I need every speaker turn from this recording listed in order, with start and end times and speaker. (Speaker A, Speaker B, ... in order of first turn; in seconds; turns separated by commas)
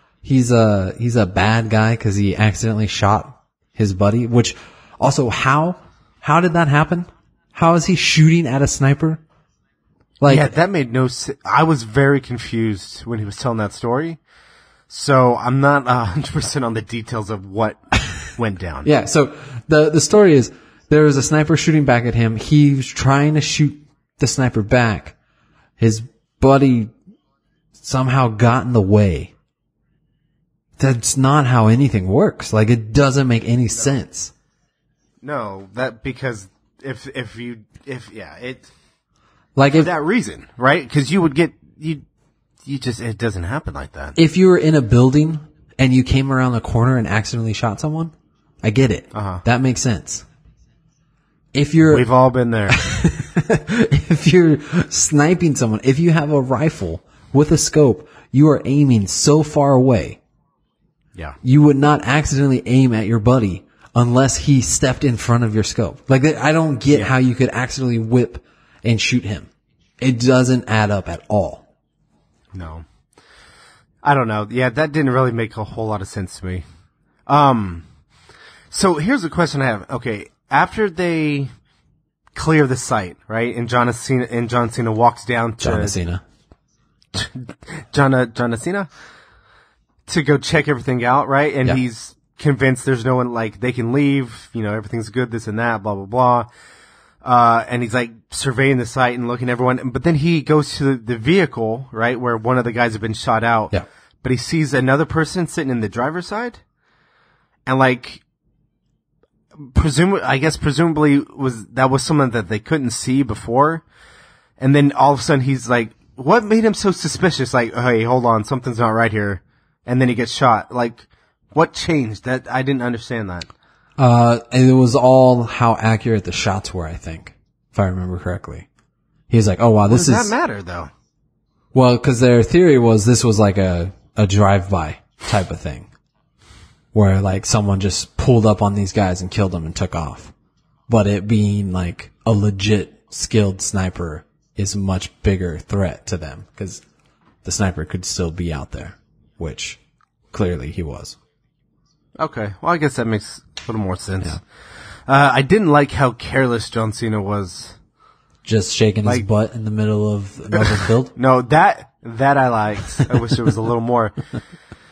Speaker A: 0.2-9.2, Speaker A: 10.2-10.6, Speaker B: 10.2-14.2, Speaker B: 14.9-18.9, Speaker A: 18.8-25.1, Speaker A: 25.8-26.9, Speaker A: 27.8-29.3, Speaker A: 30.8-34.3, Speaker B: 35.2-38.7, Speaker A: 39.5-39.9, Speaker B: 39.7-42.0, Speaker B: 42.6-44.1, Speaker A: 44.1-50.2, Speaker B: 49.1-49.4, Speaker A: 51.5-52.1, Speaker B: 51.8-52.8, Speaker A: 52.7-60.2, Speaker A: 61.4-69.5, Speaker B: 66.9-67.1, Speaker A: 70.0-71.6, Speaker B: 72.5-72.8, Speaker B: 74.0-76.6, Speaker B: 77.3-77.8, Speaker B: 78.7-81.5, Speaker B: 82.3-86.0, Speaker A: 85.6-86.2, Speaker B: 87.1-88.9, Speaker B: 90.1-96.5, Speaker B: 97.2-106.6, Speaker B: 107.7-108.2, Speaker B: 109.5-113.8, Speaker B: 114.6-123.5, Speaker A: 124.0-128.7, Speaker A: 129.3-130.3, Speaker B: 129.9-130.9, Speaker A: 131.7-135.9, Speaker A: 136.9-140.3, Speaker A: 140.9-146.8, Speaker A: 147.4-149.8, Speaker A: 150.3-151.2, Speaker B: 152.2-157.8, Speaker A: 158.4-161.1, Speaker B: 160.6-164.4